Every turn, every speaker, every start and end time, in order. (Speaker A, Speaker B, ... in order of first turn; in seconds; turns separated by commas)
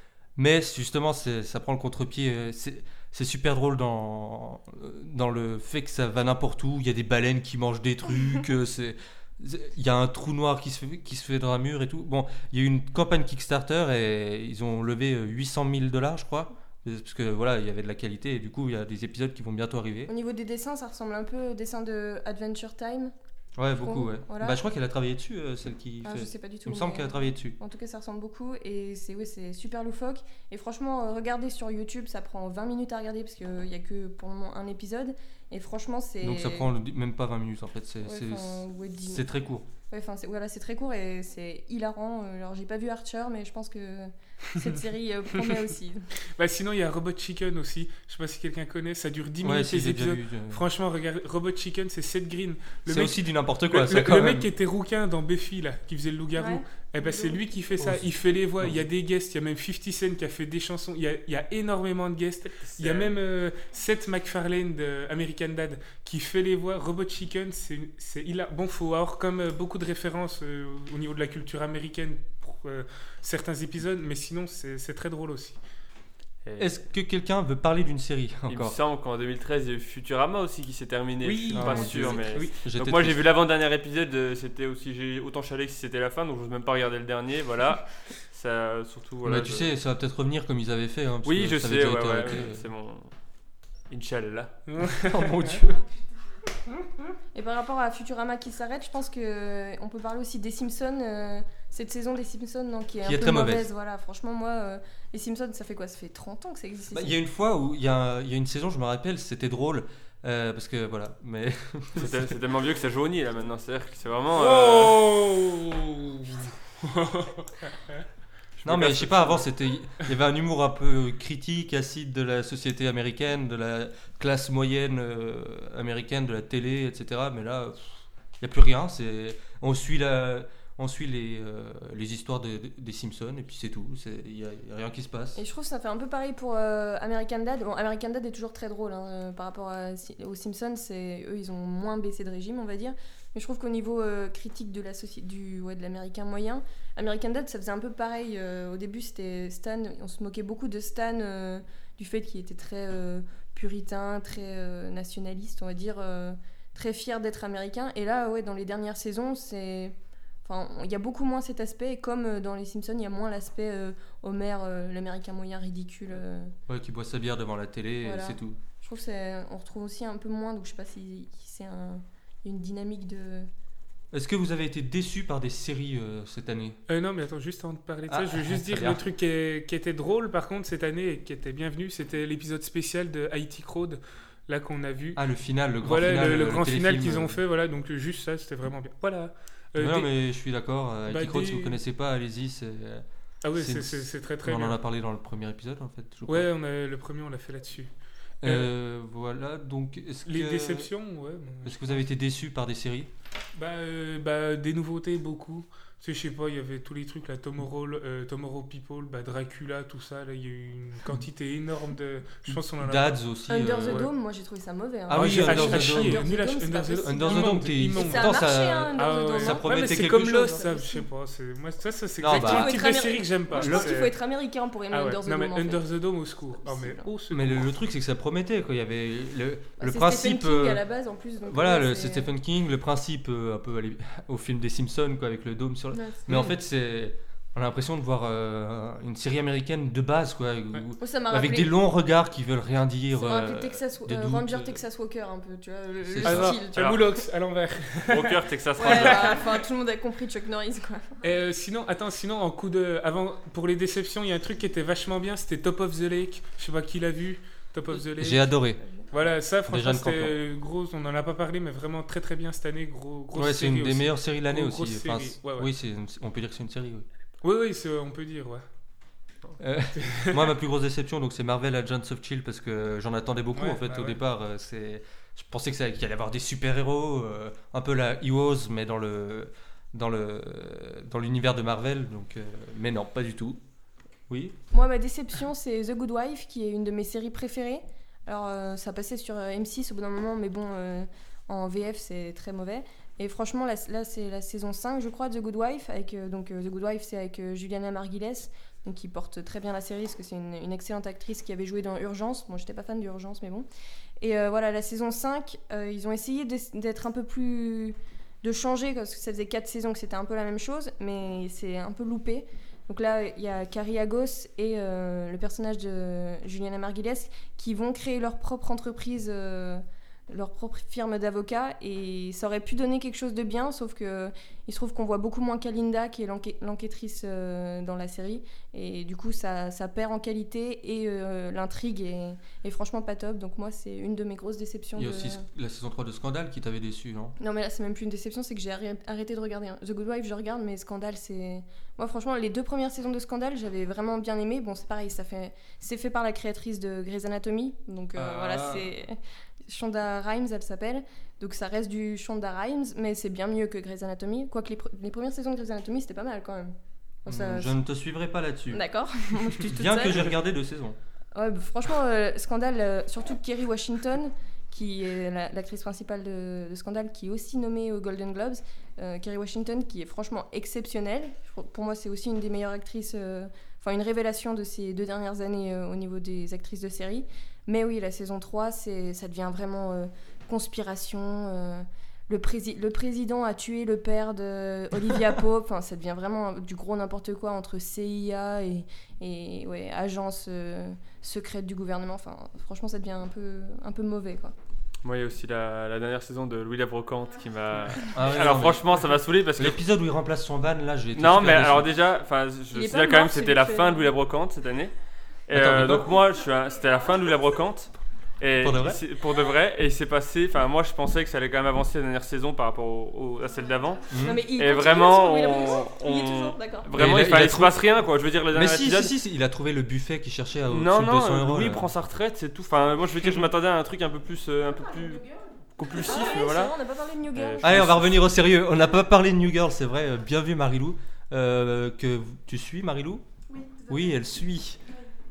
Speaker A: 0.4-20.1, Speaker B: 20.1-23.1, Speaker A: 23.6-27.6, Speaker B: 23.8-24.6, Speaker B: 26.0-36.7, Speaker A: 36.2-39.7, Speaker B: 38.0-39.3, Speaker B: 39.9-46.1, Speaker C: 45.4-45.6, Speaker C: 46.4-75.6, Speaker A: 49.4-50.6, Speaker A: 52.9-54.5, Speaker B: 56.4-57.5, Speaker A: 57.8-58.1, Speaker D: 62.6-63.1, Speaker D: 76.5-76.8, Speaker A: 76.6-78.8, Speaker D: 78.5-89.7, Speaker C: 81.2-82.6, Speaker A: 81.5-83.2, Speaker A: 89.2-92.6, Speaker D: 91.2-93.1, Speaker D: 93.9-94.6, Speaker C: 94.7-95.6, Speaker A: 94.8-95.8, Speaker B: 97.3-107.2, Speaker A: 103.0-103.7, Speaker A: 106.9-112.3, Speaker D: 112.0-115.1, Speaker C: 114.3-118.0, Speaker D: 118.6-119.5, Speaker A: 118.6-135.4, Speaker B: 135.4-166.6, Speaker A: 166.7-168.6, Speaker B: 168.0-173.5, Speaker A: 174.1-176.8, Speaker C: 176.9-185.2, Speaker A: 178.1-179.0, Speaker A: 185.2-187.4, Speaker C: 185.8-190.1, Speaker A: 189.8-196.5, Speaker C: 191.1-191.8, Speaker C: 193.4-194.8, Speaker C: 196.3-197.9, Speaker A: 198.4-200.9, Speaker C: 198.4-198.7, Speaker C: 200.3-202.0, Speaker A: 201.6-203.1, Speaker C: 203.6-213.2, Speaker A: 212.5-214.1, Speaker B: 213.5-221.1, Speaker A: 215.1-216.3, Speaker C: 215.1-224.2, Speaker A: 217.0-220.6, Speaker A: 222.2-222.8, Speaker B: 222.3-225.8, Speaker A: 223.5-223.9, Speaker C: 224.9-227.7, Speaker B: 226.6-227.1, Speaker A: 227.3-230.8, Speaker B: 229.8-232.3, Speaker A: 231.5-244.8, Speaker B: 235.9-236.5, Speaker B: 241.0-241.8, Speaker B: 243.1-246.9, Speaker A: 246.0-246.6, Speaker C: 246.2-249.4, Speaker D: 248.1-249.5, Speaker B: 248.8-251.2, Speaker C: 251.2-258.6, Speaker A: 257.9-258.8, Speaker C: 259.1-265.7, Speaker A: 259.7-260.4, Speaker A: 263.3-267.1, Speaker C: 267.4-268.6, Speaker A: 269.6-283.6, Speaker C: 270.0-270.5, Speaker C: 273.6-274.2, Speaker A: 284.3-284.6, Speaker B: 284.7-303.7, Speaker B: 304.2-335.4, Speaker A: 335.0-337.4, Speaker B: 337.4-357.8, Speaker A: 348.1-348.9, Speaker A: 357.3-358.8, Speaker B: 358.7-360.4, Speaker A: 359.5-361.0, Speaker B: 361.4-394.5, Speaker D: 395.0-399.8, Speaker A: 398.0-401.9, Speaker D: 401.2-404.9, Speaker B: 402.7-404.1, Speaker D: 405.5-419.1, Speaker A: 405.5-406.2, Speaker A: 408.6-409.0, Speaker A: 414.1-414.4, Speaker B: 414.2-416.9, Speaker A: 416.9-417.8, Speaker A: 418.5-421.9, Speaker D: 420.7-425.2, Speaker E: 424.7-426.4, Speaker D: 425.8-426.7, Speaker B: 425.9-428.1, Speaker D: 427.3-428.0, Speaker A: 427.6-433.2, Speaker E: 433.5-434.2, Speaker A: 433.9-434.8